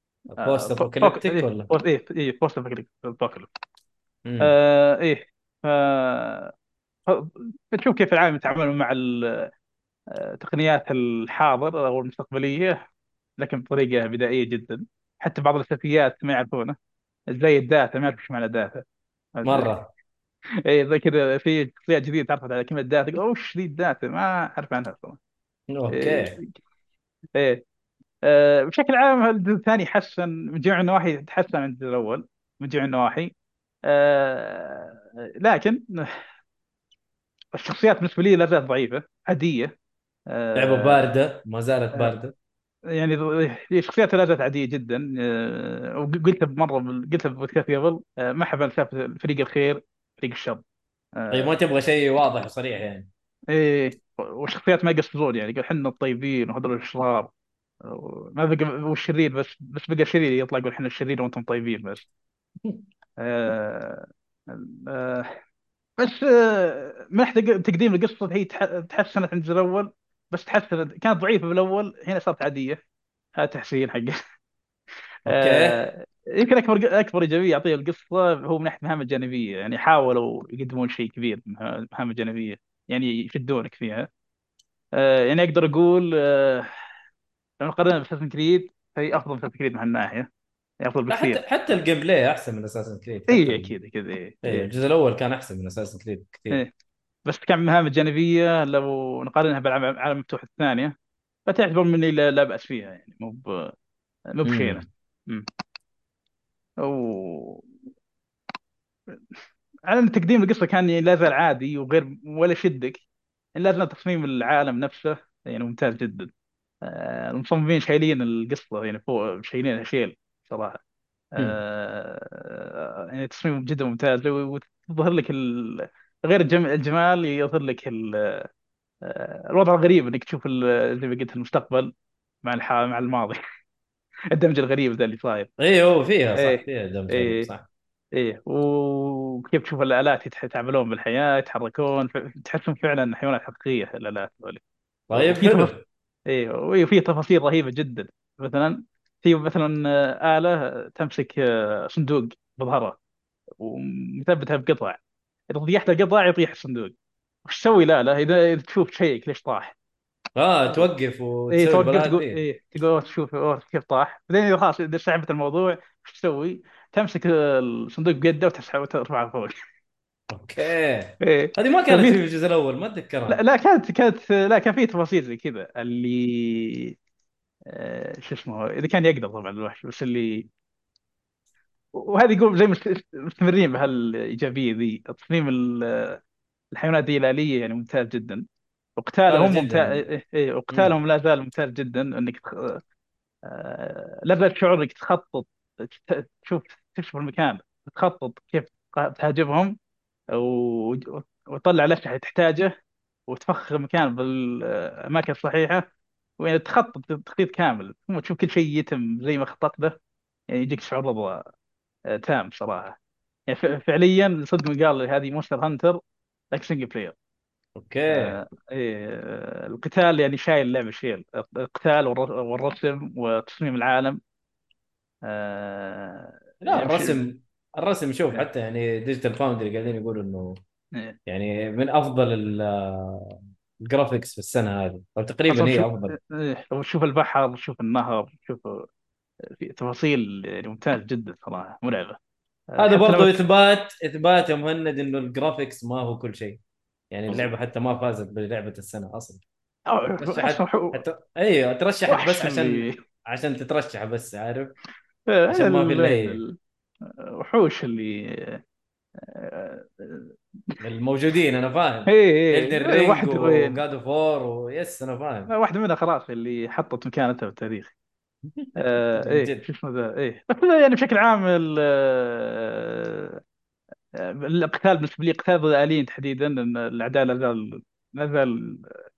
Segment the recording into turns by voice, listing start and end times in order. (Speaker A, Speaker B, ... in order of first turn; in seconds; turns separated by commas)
Speaker A: 0.3-1.7, Speaker B: 0.4-3.5, Speaker A: 4.3-4.5, Speaker B: 4.4-6.5, Speaker B: 7.1-9.5, Speaker B: 10.1-12.8, Speaker B: 13.4-16.8, Speaker B: 17.3-18.8, Speaker B: 19.4-19.7, Speaker A: 19.4-19.9, Speaker B: 20.6-25.2, Speaker A: 25.7-26.4, Speaker B: 25.9-26.5, Speaker B: 28.2-33.3, Speaker B: 33.9-36.2, Speaker B: 37.5-39.7, Speaker B: 40.3-41.0, Speaker A: 40.5-42.3, Speaker B: 42.9-50.6, Speaker B: 51.2-51.5, Speaker A: 51.3-53.1, Speaker B: 53.5-57.3, Speaker B: 57.8-62.1, Speaker B: 63.2-65.3, Speaker B: 66.0-72.8, Speaker B: 73.4-74.2, Speaker A: 75.3-75.8, Speaker B: 75.3-84.1, Speaker B: 85.0-86.7, Speaker B: 87.6-90.3, Speaker B: 90.8-91.4, Speaker A: 91.1-93.8, Speaker B: 93.3-94.7, Speaker A: 94.4-96.6, Speaker B: 97.3-100.9, Speaker B: 101.5-103.7, Speaker B: 104.3-105.5, Speaker A: 104.5-104.8, Speaker B: 106.8-107.7, Speaker B: 109.9-113.0, Speaker B: 113.6-116.3, Speaker B: 116.8-120.8, Speaker B: 121.3-128.5, Speaker B: 129.0-131.9, Speaker B: 132.4-133.4, Speaker B: 134.3-135.5, Speaker A: 135.6-137.7, Speaker B: 136.4-137.5, Speaker B: 138.2-144.6, Speaker A: 145.1-145.8, Speaker B: 145.1-145.7, Speaker B: 146.3-153.0, Speaker B: 153.6-155.0, Speaker B: 155.5-156.9, Speaker B: 157.5-159.8, Speaker A: 160.4-162.4, Speaker B: 161.5-169.5, Speaker A: 170.3-173.4, Speaker B: 170.6-172.2, Speaker B: 173.3-176.9, Speaker B: 177.7-180.5, Speaker B: 181.9-186.2, Speaker B: 186.7-188.4, Speaker B: 189.0-192.8, Speaker A: 189.3-190.0, Speaker B: 193.4-199.8, Speaker B: 200.3-202.7, Speaker B: 203.3-205.8, Speaker B: 206.4-210.0, Speaker B: 210.5-211.4, Speaker B: 212.1-213.0, Speaker B: 213.5-216.0, Speaker B: 216.5-217.1, Speaker A: 217.8-218.3, Speaker B: 218.1-224.2, Speaker B: 225.3-227.2, Speaker A: 226.7-230.6, Speaker A: 231.3-236.1, Speaker B: 235.5-238.9, Speaker B: 239.6-242.2, Speaker B: 242.7-243.4, Speaker A: 242.8-246.6, Speaker A: 247.1-249.4, Speaker B: 249.9-251.0, Speaker A: 250.2-254.7, Speaker B: 252.1-252.9, Speaker B: 255.3-256.6, Speaker A: 255.5-256.4, Speaker B: 257.2-258.6, Speaker B: 259.2-260.8, Speaker A: 260.8-265.5, Speaker B: 262.1-263.8, Speaker B: 265.5-267.9, Speaker A: 268.6-269.6, Speaker B: 268.8-273.4, Speaker B: 274.2-279.0